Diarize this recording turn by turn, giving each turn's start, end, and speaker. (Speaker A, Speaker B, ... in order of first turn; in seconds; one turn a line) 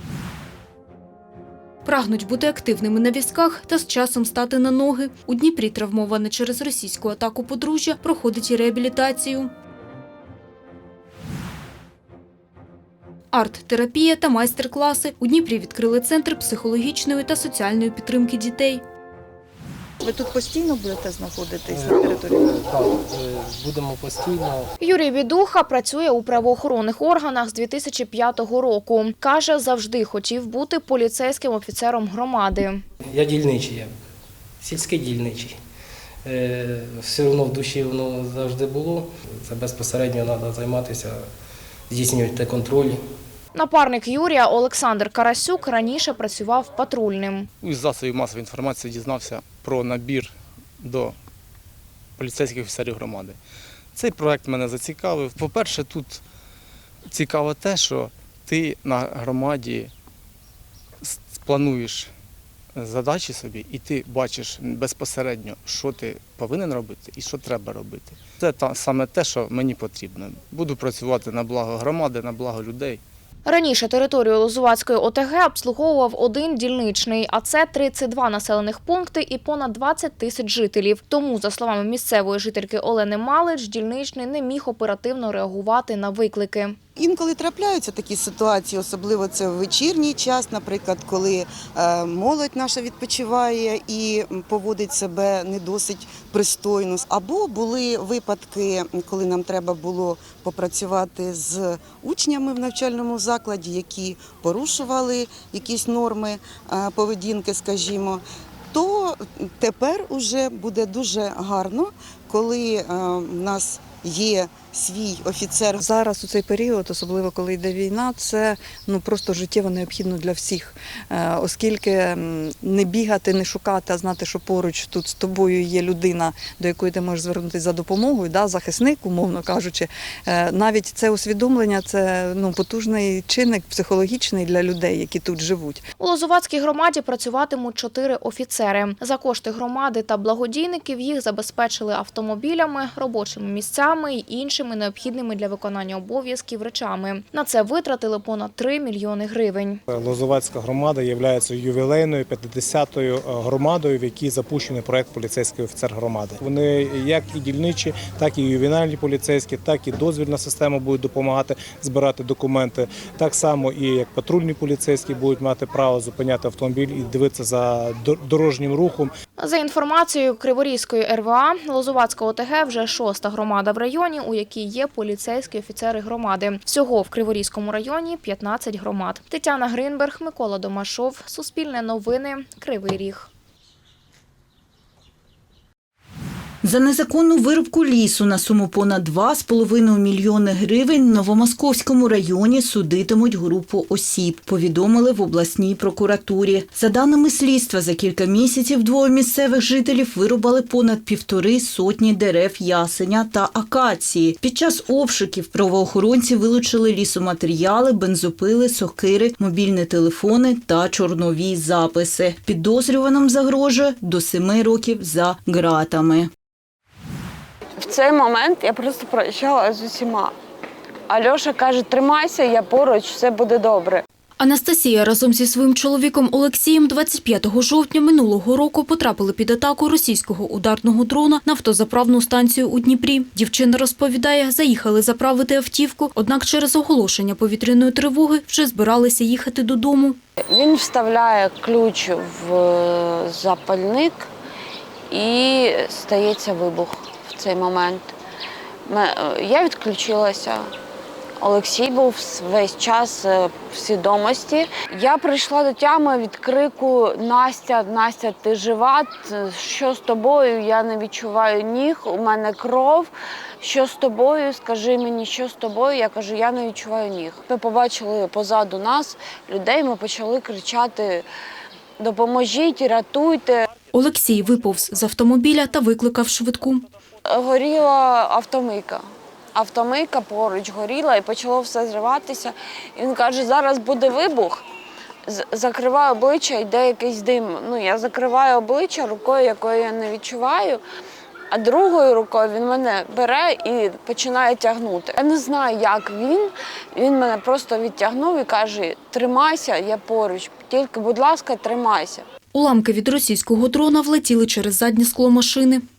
Speaker A: 1.8-9.5
Speaker A: 13.3-18.8
Speaker B: 21.6-22.2
Speaker C: 21.7-24.7
Speaker D: 24.8-32.8
Speaker C: 33.1-33.9
Speaker C: 34.6-35.5
Speaker C: 36.2-41.2
Speaker C: 41.9-43.0
Speaker D: 43.5-47.5
Speaker E: 47.6-51.1
Speaker E: 52.2-53.4
Speaker E: 53.9-56.2
Speaker E: 57.1-59.9
Speaker E: 61.0-62.1
Speaker E: 62.8-73.0
Speaker D: 73.4-86.8
Speaker F: 87.0-108.2
Speaker F: 108.7-115.8
Speaker B: 115.8-135.8
Speaker D: 136.0-149.8
Speaker G: 149.9-169.1
Speaker D: 169.4-183.3
Speaker H: 186.6-216.3
Speaker I: 217.8-220.3
Speaker I: 221.1-224.0
Speaker A: 224.4-240.2
Speaker I: 240.5-244.3
Speaker I: 245.1-248.1
Speaker I: 248.9-250.7
Speaker I: 251.4-263.1
Speaker I: 263.6-271.2
Speaker I: 272.0-273.6
Speaker A: 273.9-276.8
Speaker G: 274.0-275.2
Speaker I: 277.3-279.0
Speaker I: 279.5-284.6
Speaker I: 285.3-290.8
Speaker I: 291.5-302.2
Speaker A: 302.5-305.8